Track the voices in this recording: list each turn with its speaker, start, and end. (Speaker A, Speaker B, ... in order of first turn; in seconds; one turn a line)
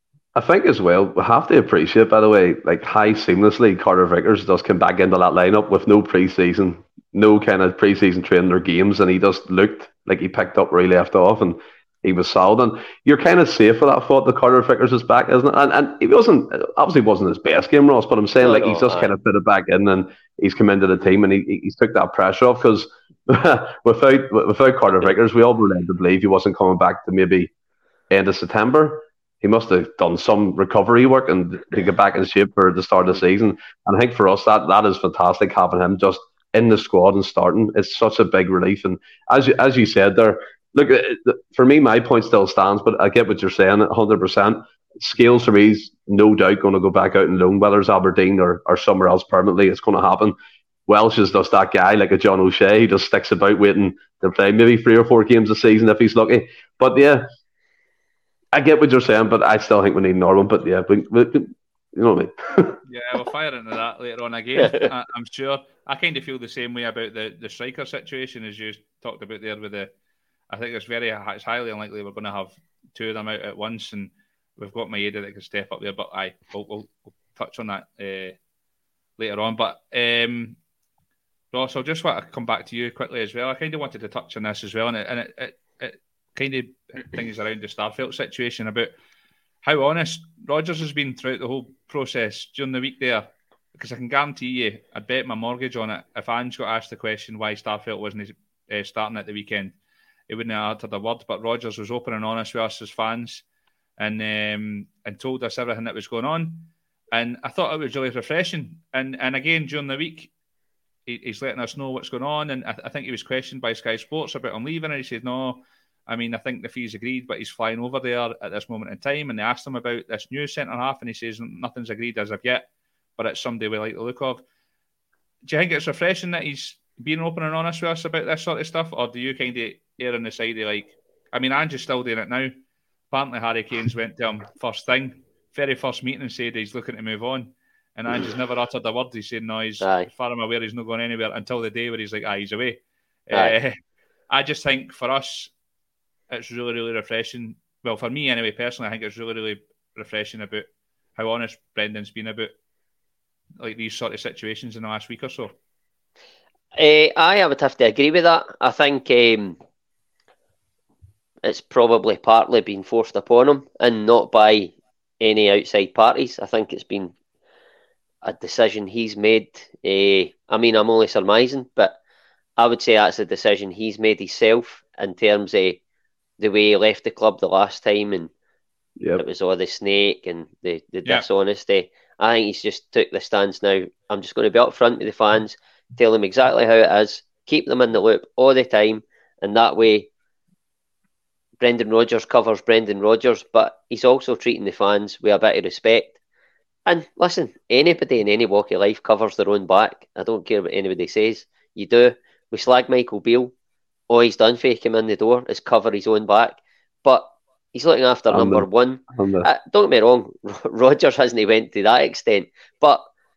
Speaker A: 0.3-27.5
Speaker B: 18.4-19.1
Speaker A: 28.1-50.4
Speaker A: 50.9-57.3
Speaker A: 58.5-62.8
Speaker C: 62.9-69.9
Speaker B: 64.6-64.9
Speaker C: 70.5-78.4
Speaker C: 79.2-80.6
Speaker C: 81.5-88.9
Speaker C: 89.6-99.7
Speaker C: 100.3-103.4
Speaker C: 104.0-110.3
Speaker C: 111.1-124.4
Speaker C: 125.5-132.5
Speaker C: 133.1-143.8
Speaker B: 139.8-140.1
Speaker C: 144.3-145.5
Speaker C: 146.3-152.5
Speaker C: 153.6-155.5
Speaker B: 156.8-159.6
Speaker B: 161.4-167.1
Speaker B: 168.2-172.0
Speaker B: 172.6-175.8
Speaker B: 176.4-178.3
Speaker B: 179.2-190.1
Speaker B: 191.6-196.2
Speaker B: 196.8-203.5
Speaker B: 204.1-213.1
Speaker A: 208.3-209.5